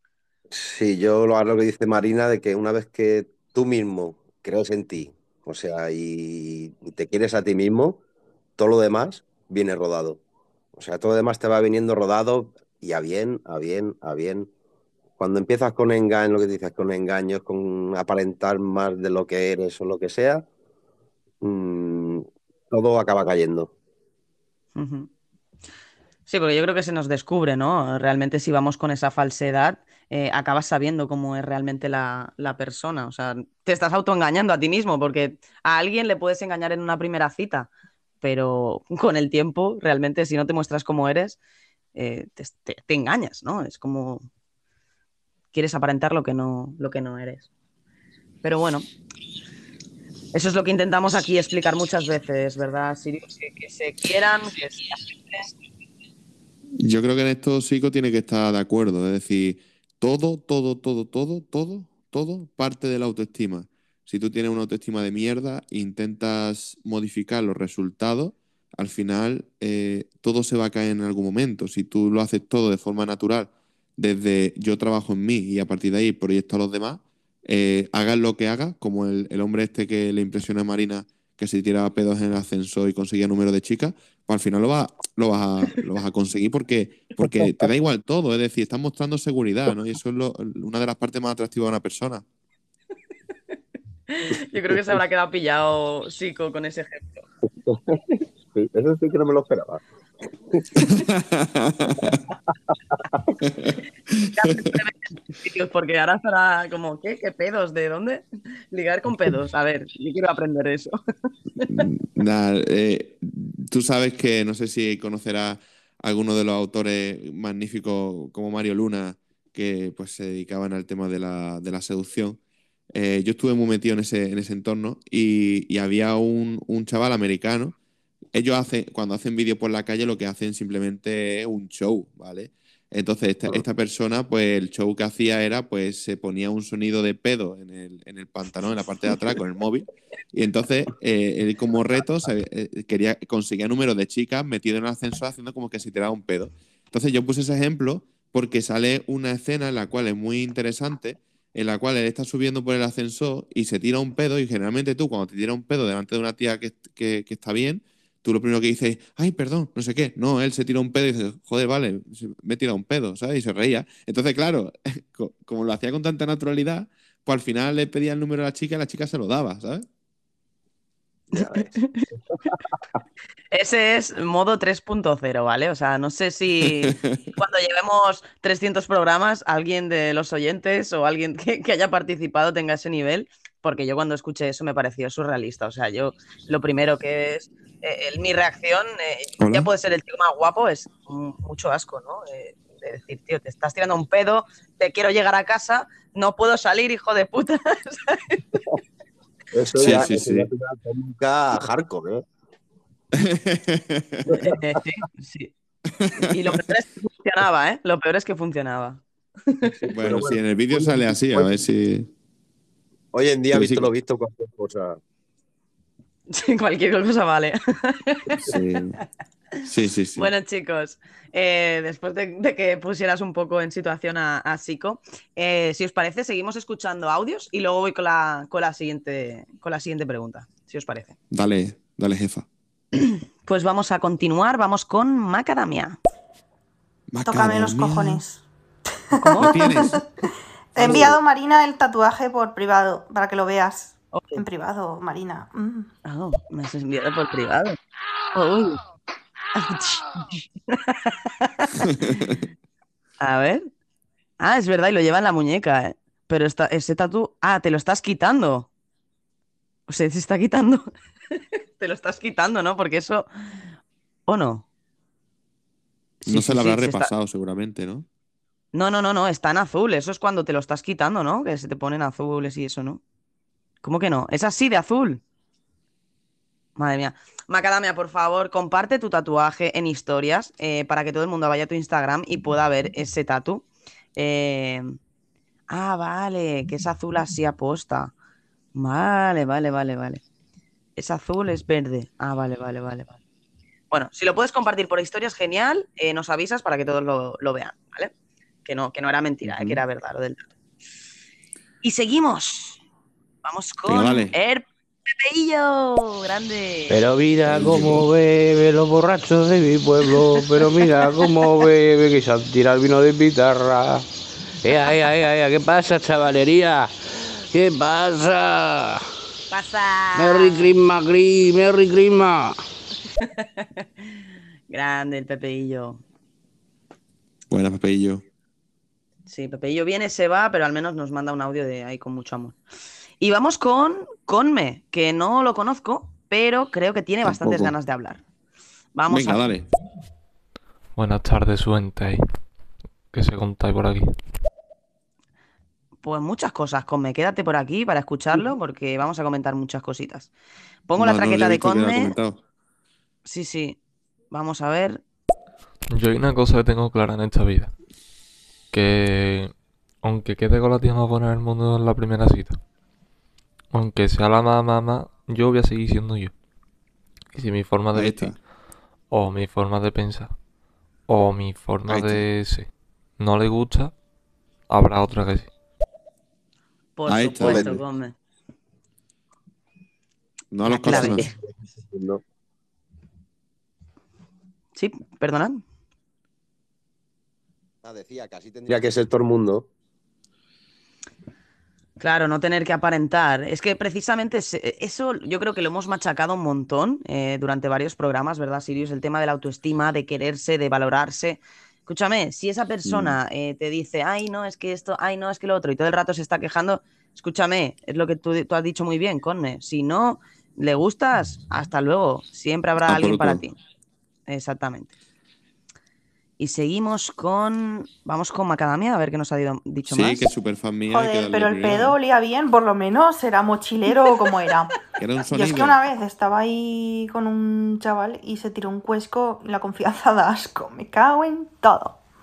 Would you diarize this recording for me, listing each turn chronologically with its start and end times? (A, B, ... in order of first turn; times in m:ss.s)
0:00.5-0:08.0 A
0:08.6-0:10.2 A
0:10.7-0:14.5 A
0:15.2-0:20.5 A
0:21.4-0:23.7 A
0:24.8-0:25.1 B
0:26.3-0:37.7 B
0:38.2-0:41.4 B
0:41.9-0:44.2 B
0:45.5-0:47.5 B
0:48.4-0:48.9 B
0:50.3-0:55.5 B
0:56.8-1:32.2 C
1:34.1-1:37.2 B
1:37.6-1:39.8 A
1:40.8-1:42.2 C
1:43.4-1:43.7 C
1:44.4-1:50.9 B
1:51.6-2:02.4 C
2:02.9-2:07.8 C
2:08.3-2:49.8 C
2:51.3-2:51.8 A
2:51.3-2:52.0 B
2:53.5-3:18.7 B
2:56.8-2:57.2 C
3:09.4-3:09.7 C
3:19.5-3:22.2 A
3:19.8-3:20.5 C
3:23.1-3:24.3 C
3:24.3-3:24.6 A
3:24.4-3:25.5 B
3:25.9-3:26.3 C
3:26.3-3:29.8 B
3:29.8-3:31.5 A
3:29.9-3:32.1 C
3:33.1-3:35.0 A
3:33.5-3:33.9 C
3:36.3-3:38.6 B
3:38.4-3:39.0 C
3:39.6-3:40.3 C
3:40.2-3:51.2 B
3:51.3-3:52.4 C
3:53.0-3:56.0 B
3:57.1-3:58.2 C
3:57.2-3:58.4 D
3:59.1-4:00.0 D
3:59.2-3:59.8 B
3:59.4-4:00.0 C
4:00.7-4:05.9 D
4:00.8-4:01.0 B
4:04.1-4:04.4 B
4:06.0-4:07.8 B
4:08.3-4:08.8 B
4:09.5-4:12.3 B
4:11.9-4:12.3 C
4:13.2-4:13.7 B
4:14.4-4:18.7 B
4:19.9-4:20.9 B
4:21.8-4:23.3 B
4:24.3-4:24.6 B
4:26.2-4:27.1 B
4:26.3-4:28.0 C
4:28.7-4:33.0 B
4:33.8-4:35.2 B
4:36.8-4:43.6 B
4:44.2-4:45.0 B
4:45.7-4:48.1 B
4:48.7-4:50.2 B
4:51.0-4:53.2 B
4:53.9-4:58.1 B
4:58.6-5:00.5 B
4:59.4-4:59.8 C
5:01.8-5:02.8 B
5:03.4-5:06.9 B
5:03.8-5:04.3 C
5:06.9-5:14.0 E
5:07.5-5:08.0 C
5:14.6-5:16.9 E
5:17.5-5:19.0 E
5:19.5-5:20.7 B
5:20.1-5:22.6 E
5:23.2-5:24.2 B
5:24.7-5:26.0 B
5:27.5-5:28.2 C
5:29.3-5:32.6 B
5:33.2-5:38.2 B
5:37.2-5:37.7 C
5:38.9-5:39.4 B
5:39.1-5:39.6 C
5:40.9-5:42.2 F
5:43.1-5:44.1 F
5:46.0-5:50.3 B
5:50.9-5:52.1 B
5:51.0-5:52.4 C
5:53.2-5:53.8 B
5:54.3-5:55.0 B
5:55.9-5:57.7 F
5:58.7-6:02.6 F
6:03.7-6:06.3 F
6:07.3-6:08.4 F
6:07.9-6:08.4 C
6:09.1-6:10.4 F
6:11.1-6:13.9 F
6:11.9-6:12.3 C
6:14.7-6:15.5 F
6:17.0-6:18.1 B
6:17.1-6:17.8 C
6:17.4-6:17.8 A
6:20.5-6:21.3 C
6:20.6-6:21.3 B
6:20.9-6:22.2 A
6:24.7-6:25.6 B
6:27.8-6:29.7 A
6:32.0-6:53.6 B
6:42.8-6:43.2 C
6:52.8-6:53.4 C
6:54.3-6:54.9 B
6:56.4-7:00.3 B
6:59.9-7:02.0 C
7:00.9-7:04.8 D
7:05.0-7:05.8 C
7:05.3-7:12.0 D